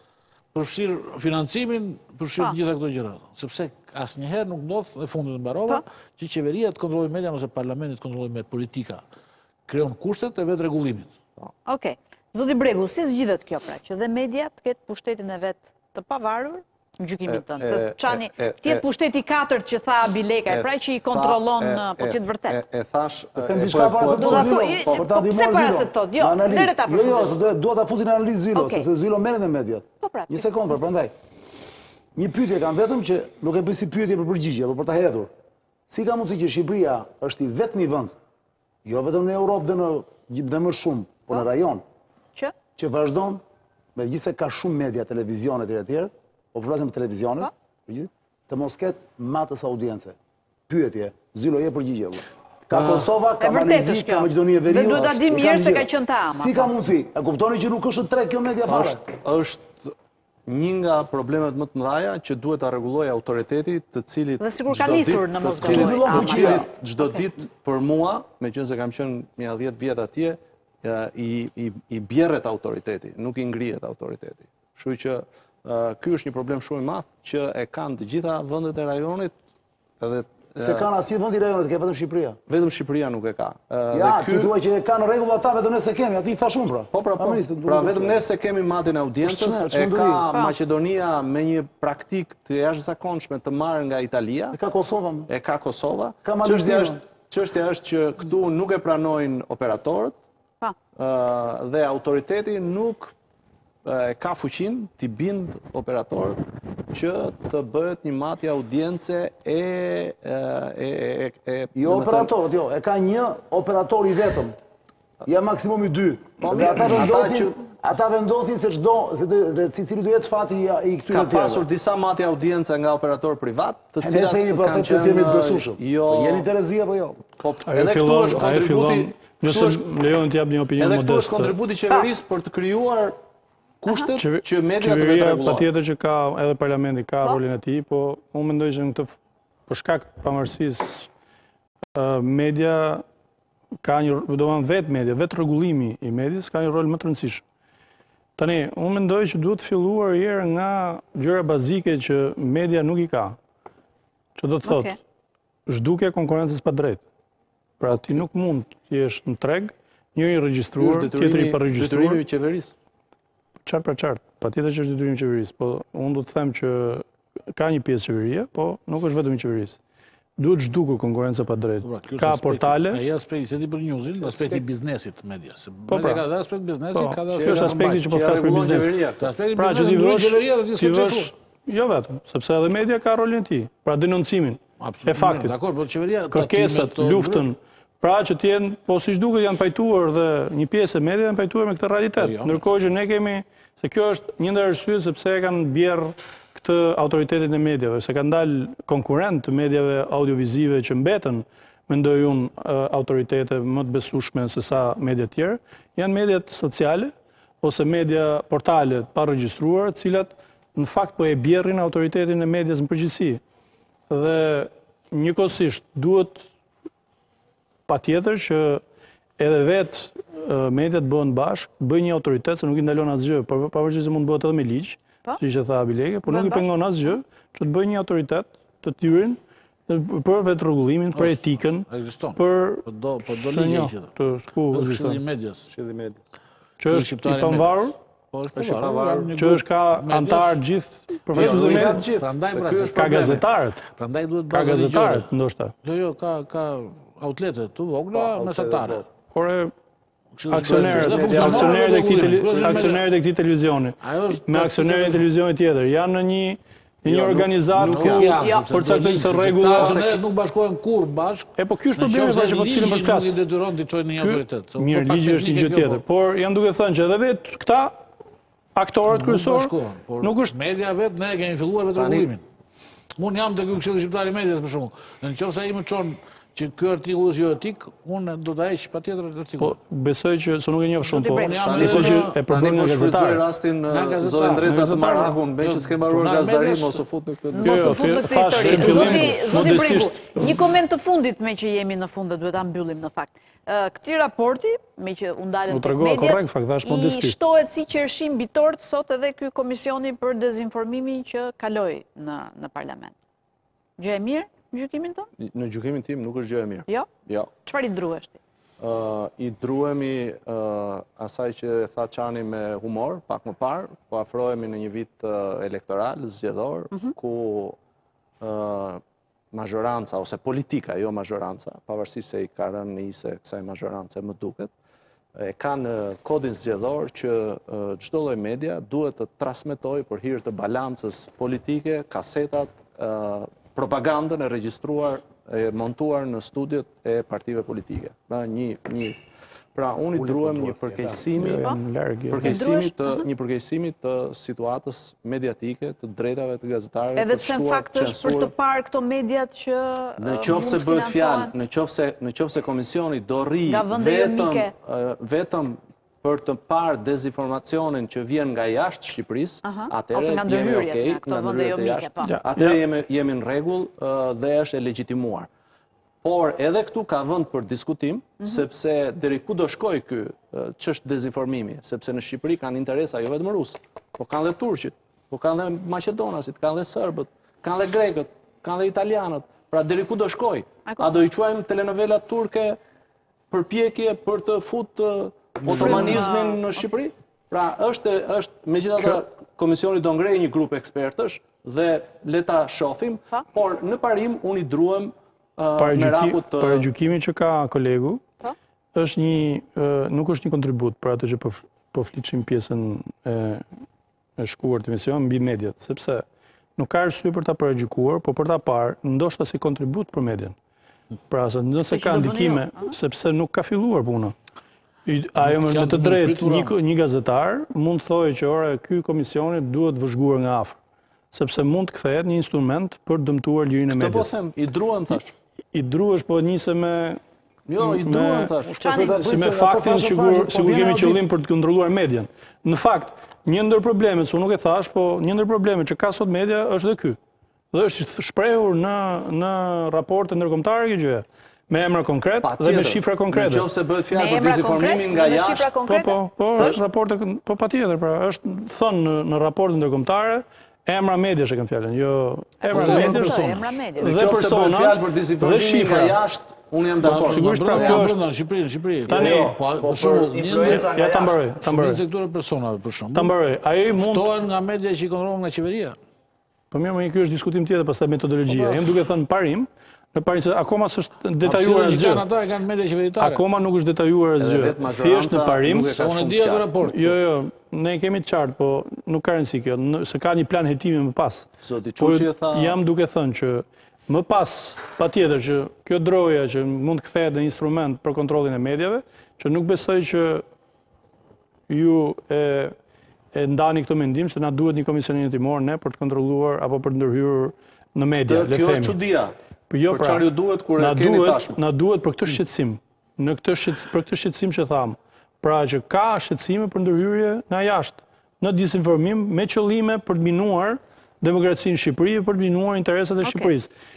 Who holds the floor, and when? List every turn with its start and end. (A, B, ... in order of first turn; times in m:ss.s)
0:00.5-0:09.0 A
0:09.7-0:11.1 A
0:11.6-0:22.6 B
0:17.3-0:18.8 C
0:20.5-0:25.0 C
0:23.4-0:31.1 D
0:24.0-0:27.3 B
0:28.5-0:28.8 B
0:30.0-0:30.5 B
0:32.1-0:35.3 D
0:35.9-0:38.2 D
0:38.8-0:41.8 D
0:42.8-0:43.4 D
0:43.9-0:50.2 D
0:50.7-0:59.0 D
0:52.7-0:53.1 C
0:53.4-0:56.7 B
0:58.7-0:59.9 C
1:00.5-1:19.3 C
1:04.4-1:07.2 B
1:05.6-1:06.7 D
1:20.0-1:20.8 C
1:20.6-1:22.4 D
1:22.5-1:24.5 C
1:23.9-1:28.2 D
1:26.9-1:34.6 C
1:29.2-1:30.3 D
1:34.5-1:35.3 D
1:35.3-1:40.2 C
1:36.2-1:37.0 D
1:40.9-1:43.1 C
1:43.8-1:46.4 C
1:46.9-1:52.3 C
1:51.7-1:54.6 D
1:55.2-2:01.6 D
1:56.4-1:57.6 C
2:01.1-2:06.5 C
2:04.0-2:07.2 D
2:07.4-2:09.8 C
2:07.7-2:11.6 E
2:10.8-2:13.2 C
2:13.8-2:15.6 C
2:13.9-2:14.1 B
2:14.2-2:19.2 E
2:19.7-2:21.1 E
2:22.0-2:23.0 E
2:23.8-2:27.4 E
2:28.4-2:33.4 E
2:34.4-2:35.0 E
2:34.6-2:35.0 B
2:35.7-2:37.0 E
2:37.8-2:42.2 E
2:40.8-2:42.7 C
2:43.6-2:49.8 E
2:50.4-2:53.0 E
2:51.8-2:58.0 A
2:54.1-2:54.6 C
2:55.9-2:56.2 E
2:56.9-2:59.0 E
2:57.4-2:59.2 C
2:59.2-3:01.3 A
2:59.5-3:05.5 E
3:04.8-3:07.4 A
3:06.3-3:33.4 E
3:12.2-3:12.7 A
3:34.1-3:36.4 E
3:37.9-3:38.8 E
3:39.4-3:55.2 E
3:46.3-3:46.7 B
3:51.1-3:54.1 A
3:54.7-3:55.7 A
3:55.7-3:56.2 C
3:56.8-3:57.9 E
3:56.8-4:00.6 A
3:58.5-3:59.3 C
3:59.3-4:02.1 E
4:01.3-4:03.4 C
4:01.3-4:05.3 A
4:02.9-4:03.8 E
4:04.5-4:05.7 E
4:05.8-4:09.1 A
4:08.1-4:09.0 C
4:09.3-4:09.7 E
4:10.3-4:13.1 A
4:10.5-4:20.0 E
4:10.6-4:11.8 C
4:12.5-4:12.9 C
4:14.0-4:15.3 A
4:17.1-4:18.4 C
4:17.1-4:26.0 A
4:18.4-4:18.7 B
4:19.7-4:20.2 C
4:21.6-4:23.4 E
4:24.2-4:28.0 E
4:28.8-4:30.5 E
4:29.1-4:32.4 A
4:31.9-4:32.3 C
4:33.2-4:39.8 A
4:39.6-4:43.4 E
4:41.0-4:41.6 B
4:41.1-4:42.4 A
4:41.6-4:48.0 C
4:43.9-4:44.7 A
4:44.6-4:45.4 E
4:45.6-4:47.0 A
4:47.6-5:03.1 B
4:47.6-4:50.6 E
4:48.5-4:49.8 A
4:55.7-4:57.4 E
5:04.0-5:05.3 B
5:05.4-5:07.5 C
5:07.6-5:08.4 B
5:08.8-5:17.8 C
5:18.4-5:19.0 C
5:19.5-5:24.7 C
5:25.4-5:39.2 C
5:39.7-5:41.8 C
5:40.1-5:41.2 D
5:41.4-5:42.6 E
5:41.5-5:41.8 B
5:42.3-5:48.5 C
5:42.4-5:43.2 B
5:47.2-5:51.5 B
5:50.2-6:05.5 C
5:53.6-5:54.7 B
5:59.6-6:02.3 B
6:02.2-6:02.8 E
6:06.2-6:22.8 C
6:23.5-6:36.9 C
6:25.7-6:26.8 B
6:25.7-6:26.2 E
6:35.8-6:38.2 E
6:38.9-6:43.6 E
6:44.4-6:46.2 E
6:46.8-6:50.5 E
6:51.3-6:54.4 E
6:51.8-6:52.9 B
6:55.0-7:00.8 E
6:55.4-6:56.8 A
7:01.3-7:04.3 E
7:03.9-7:05.3 C
7:05.7-7:07.2 E
7:07.7-7:09.0 C
7:07.8-7:17.2 E
7:08.8-7:09.2 B
7:08.8-7:11.2 D
7:17.7-7:23.7 E
7:22.4-7:25.7 C
7:24.1-7:26.8 B
7:25.8-7:36.2 E
7:32.6-7:34.2 B
7:32.7-7:33.6 A
7:34.0-7:38.1 C
7:37.0-7:43.3 A
7:37.2-7:38.2 E
7:39.1-7:39.6 E
7:39.2-7:41.4 C
7:40.6-7:42.0 E
7:43.1-7:44.3 E
7:43.9-7:46.0 A
7:46.7-7:52.3 E
7:48.5-7:48.9 A
7:51.4-7:53.4 A
7:53.2-7:55.9 E
7:54.4-7:56.7 C
7:55.8-7:57.2 A
7:56.8-8:10.4 E
8:01.6-8:02.8 C
8:11.7-8:12.7 E
8:13.3-8:19.0 E
8:18.3-8:19.3 C
8:19.7-8:20.2 E
8:19.9-8:21.6 C
8:20.8-8:33.7 E
8:33.2-8:33.5 B